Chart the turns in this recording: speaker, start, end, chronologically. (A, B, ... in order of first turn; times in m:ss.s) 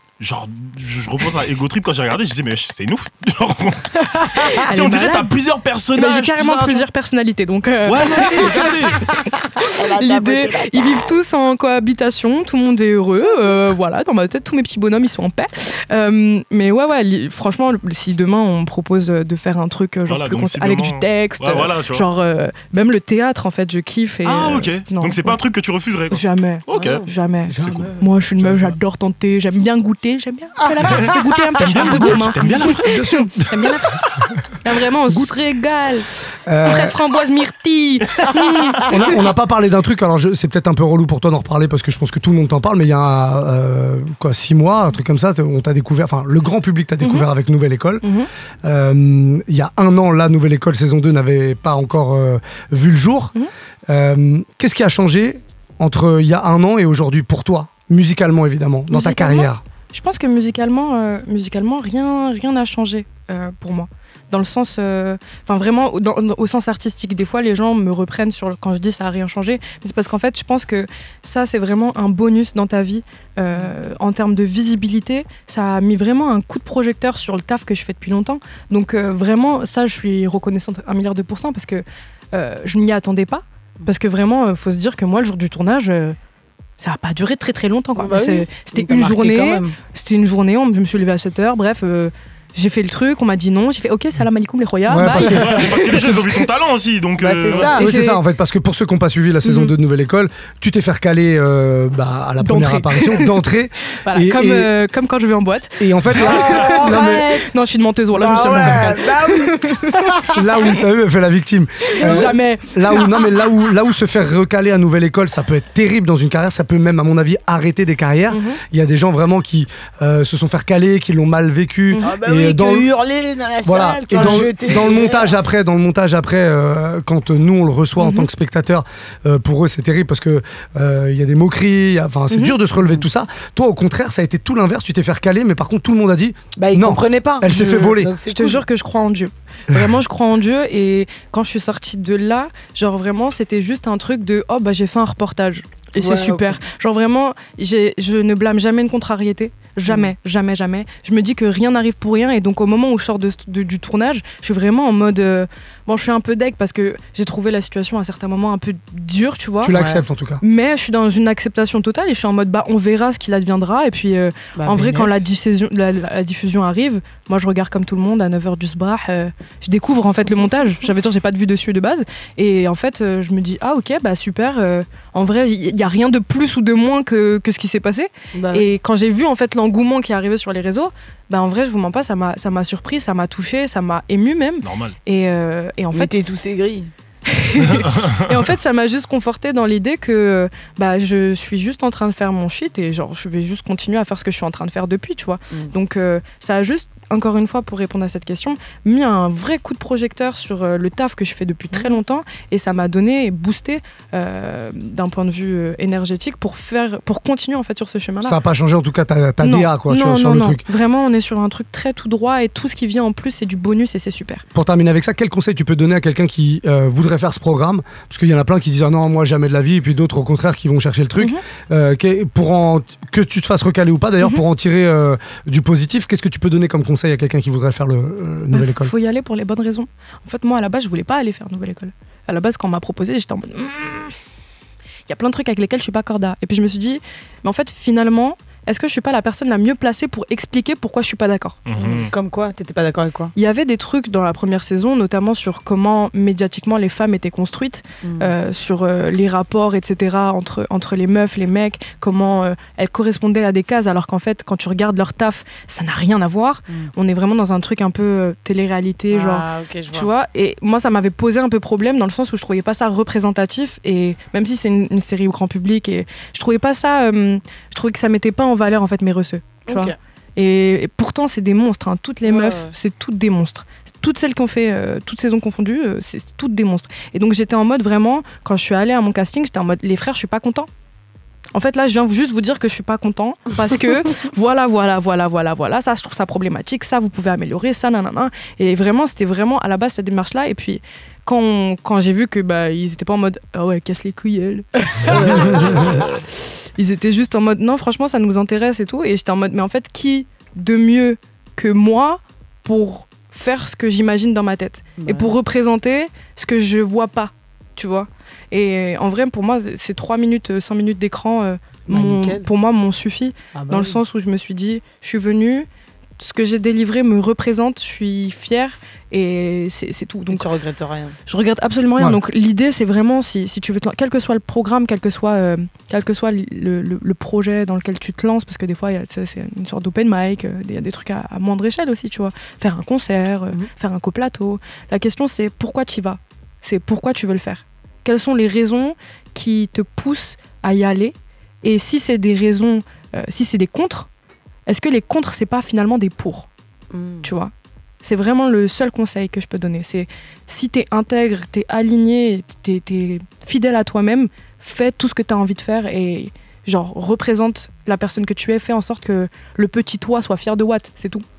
0:00.2-0:06.8 A
0:04.6-0:05.3 B
0:05.9-0:25.4 B
0:07.8-0:09.1 A
0:08.2-0:11.2 C
0:20.1-0:22.0 A
0:24.2-0:28.7 A
0:26.1-0:36.1 B
0:26.7-0:27.1 C
0:27.5-0:27.9 D
0:30.9-0:33.2 A
0:31.9-0:33.6 D
0:36.4-0:37.0 D
0:36.6-0:39.2 B
0:38.8-0:48.1 D
0:47.0-0:47.3 B
0:48.0-0:48.3 B
0:48.6-0:53.3 D
0:53.9-0:59.6 D
0:58.9-1:26.2 B
1:26.8-1:35.6 B
1:28.0-1:29.8 C
1:34.9-1:36.2 D
1:35.0-1:35.5 C
1:35.2-1:37.8 A
1:37.2-1:37.9 C
1:37.5-1:38.2 B
1:37.8-1:44.7 D
1:39.4-1:39.7 B
1:42.4-1:43.4 B
1:44.0-1:45.8 B
1:45.8-1:47.4 D
1:46.1-1:47.5 C
1:47.5-1:50.7 B
1:48.1-1:50.3 C
1:50.3-2:02.9 D
1:51.9-1:53.4 B
1:52.0-1:52.3 C
1:58.3-1:58.6 B
2:02.0-2:05.4 C
2:03.6-2:18.1 D
2:04.1-2:04.5 B
2:08.0-2:08.3 B
2:12.3-2:12.6 B
2:12.8-2:13.0 C
2:16.6-2:18.6 C
2:18.2-2:39.8 B
2:26.0-2:26.6 C
2:39.6-2:40.4 D
2:39.7-2:40.0 C
2:40.4-3:06.1 B
2:44.6-2:45.2 C
2:58.3-2:58.7 C
3:04.6-3:05.0 A
3:05.9-3:06.9 C
3:07.3-3:28.4 B
3:07.6-3:08.2 A
3:28.2-3:30.6 D
3:29.4-3:34.4 B
3:34.5-3:48.9 D
3:48.5-3:54.1 B
3:55.1-4:01.6 B
4:01.7-4:02.1 A
4:01.8-4:03.3 C
4:03.3-4:40.7 B
4:08.0-4:08.3 C
4:19.1-4:20.1 C
4:29.7-4:29.9 C
4:32.2-4:32.7 C
4:41.5-4:56.2 B
4:55.0-4:56.2 C
4:56.8-5:15.7 B
5:05.0-5:05.3 C
5:11.9-5:12.4 C
5:13.5-5:14.0 C
5:16.2-5:20.4 B
5:20.3-5:21.2 C
5:21.3-5:44.1 B
5:44.6-5:46.5 B
5:46.9-5:47.3 C
5:47.2-5:47.5 B
5:48.0-6:01.2 B